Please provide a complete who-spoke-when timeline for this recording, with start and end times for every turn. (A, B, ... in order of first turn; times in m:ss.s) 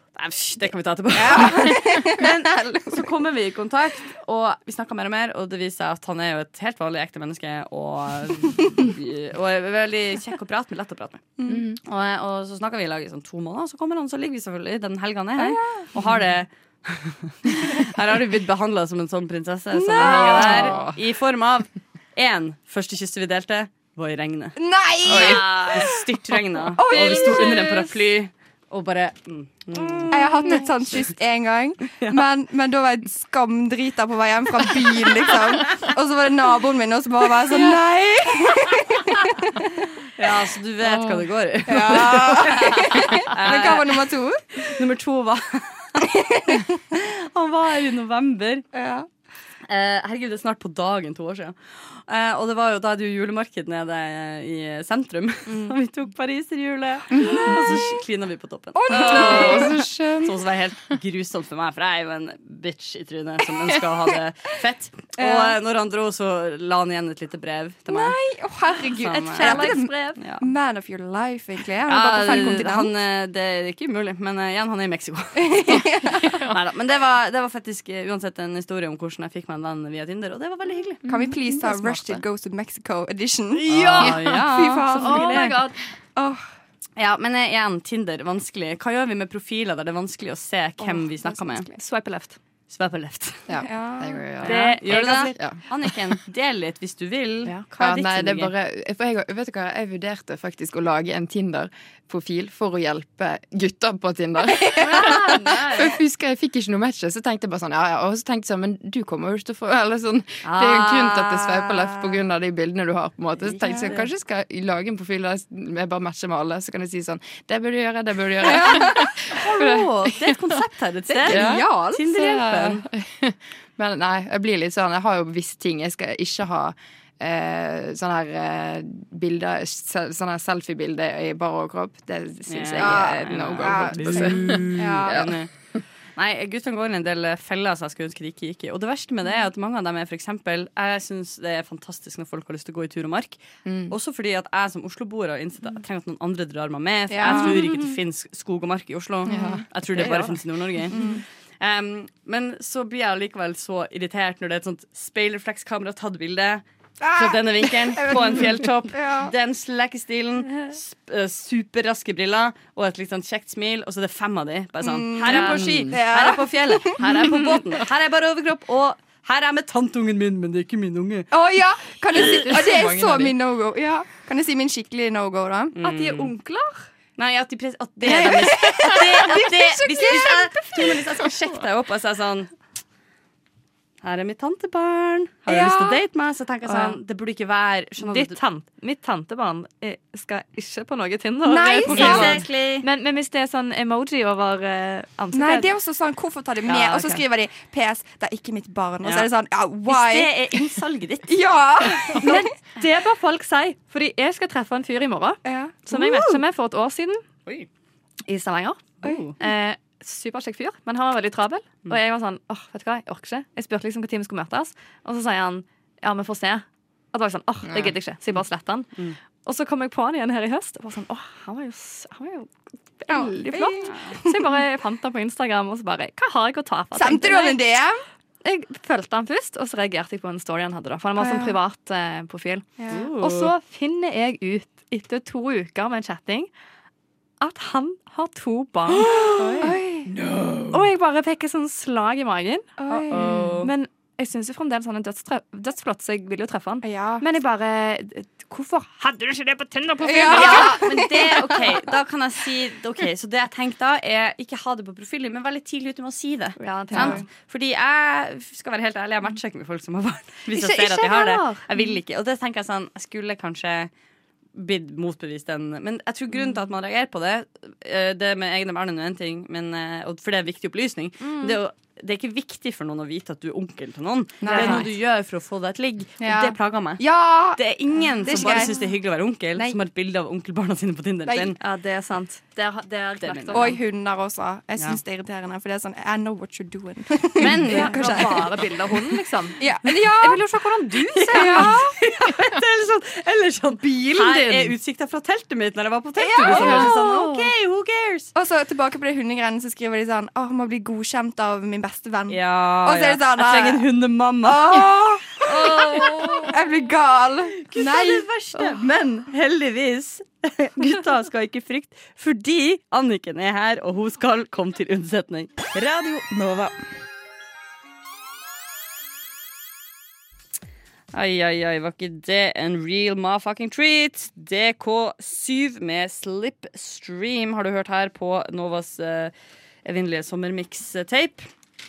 0:00.1-0:30.7 A
0:01.1-0:03.1 B
0:11.4-0:11.7 B
0:11.5-0:11.8 C
0:15.4-0:15.9 B
0:19.7-0:20.8 B
0:20.0-0:20.3 D
0:20.2-0:21.0 C
0:24.6-0:27.8 B
0:25.1-0:25.9 D
0:26.8-0:27.9 D
0:30.1-0:39.7 B
0:32.0-0:32.2 A
0:40.2-0:44.1 A
0:40.8-0:41.2 C
0:41.7-0:44.7 B
0:44.6-0:46.0 A
0:46.0-0:46.7 B
0:46.9-0:48.6 A
0:48.7-0:49.1 B
0:49.7-1:08.2 A
0:57.2-0:57.7 B
0:58.8-1:00.4 B
0:59.0-0:59.6 D
0:59.4-0:59.8 C
1:05.2-1:05.6 B
1:07.9-1:13.0 B
1:09.0-1:10.5 A
1:09.4-1:10.2 D
1:11.9-1:21.0 A
1:15.4-1:16.5 B
1:21.0-1:22.2 C
1:21.1-1:25.6 B
1:23.6-1:25.6 A
1:23.7-1:25.8 D
1:26.2-1:26.4 B
1:27.0-1:31.7 A
1:30.8-1:31.8 B
1:31.7-1:32.4 D
1:32.7-1:33.5 A
1:33.5-1:35.6 C
1:33.6-1:34.2 B
1:34.4-1:38.5 A
1:34.4-1:35.6 D
1:37.8-2:00.6 C
1:44.8-1:46.0 D
1:50.4-1:52.2 A
1:53.4-1:54.1 A
1:58.4-1:59.3 B
1:58.5-2:02.9 A
2:01.1-2:02.1 B
2:01.2-2:15.3 C
2:12.5-2:15.5 A
2:12.8-2:15.3 B
2:16.2-2:31.1 A
2:23.6-2:24.0 C
2:27.1-2:27.7 B
2:29.3-2:29.6 C
2:29.9-2:30.4 D
2:30.9-2:31.2 B
2:31.6-2:51.3 A
2:37.0-2:39.3 B
2:44.8-2:47.6 B
2:45.3-2:46.0 C
2:51.3-2:55.7 B
2:52.1-2:53.4 C
2:55.7-2:56.3 A
2:55.8-2:56.8 D
2:57.2-3:02.5 A
2:58.0-3:01.0 B
3:00.0-3:00.4 D
3:04.0-3:08.4 A
3:05.5-3:06.0 B
3:06.6-3:07.0 D
3:08.0-3:15.7 D
3:11.4-3:12.5 B
3:11.9-3:12.9 A
3:15.3-3:20.3 B
3:16.7-3:17.2 D
3:19.0-3:19.3 A
3:19.9-3:22.2 A
3:21.3-3:22.5 B
3:22.2-3:27.2 D
3:25.4-3:25.9 B
3:25.9-3:26.4 A
3:28.3-3:47.6 D
3:29.0-3:29.4 A
3:37.6-3:38.0 C
3:43.1-3:44.5 B
3:43.9-3:44.2 A
3:47.0-3:48.0 B
3:48.4-3:56.5 D
3:51.2-3:51.6 B
3:52.8-3:53.1 B
3:52.9-3:53.5 A
3:57.4-3:59.8 D
3:58.9-4:00.8 A
3:59.4-4:00.1 B
4:00.7-4:02.8 D
4:02.8-4:03.4 B
4:02.9-4:03.7 A
4:03.2-4:03.6 C
4:03.6-4:11.2 D
4:06.8-4:07.2 B
4:10.0-4:11.6 B
4:10.2-4:23.9 A
4:16.6-4:17.2 D
4:16.9-4:17.2 B
4:20.5-4:22.0 D
4:24.6-4:41.6 A
4:31.2-4:31.6 D
4:34.4-4:34.9 B
4:34.4-4:34.9 D
4:36.2-4:38.8 B
4:38.3-4:38.9 D
4:41.3-4:41.5 B
4:41.6-4:43.8 D
4:43.2-4:43.7 A
4:43.5-4:48.9 B
4:47.4-4:48.4 A
4:47.6-4:51.9 D
4:49.6-4:50.4 B
4:51.1-4:58.3 A
4:51.3-4:52.0 B
4:53.8-4:54.8 D
4:56.4-4:57.5 D
4:56.4-4:57.0 B
4:58.4-5:03.9 B
5:02.3-5:06.6 A
5:04.4-5:08.3 B
5:05.6-5:06.5 D
5:07.6-5:16.8 A
5:21.1-5:29.3 A
5:29.8-5:31.5 A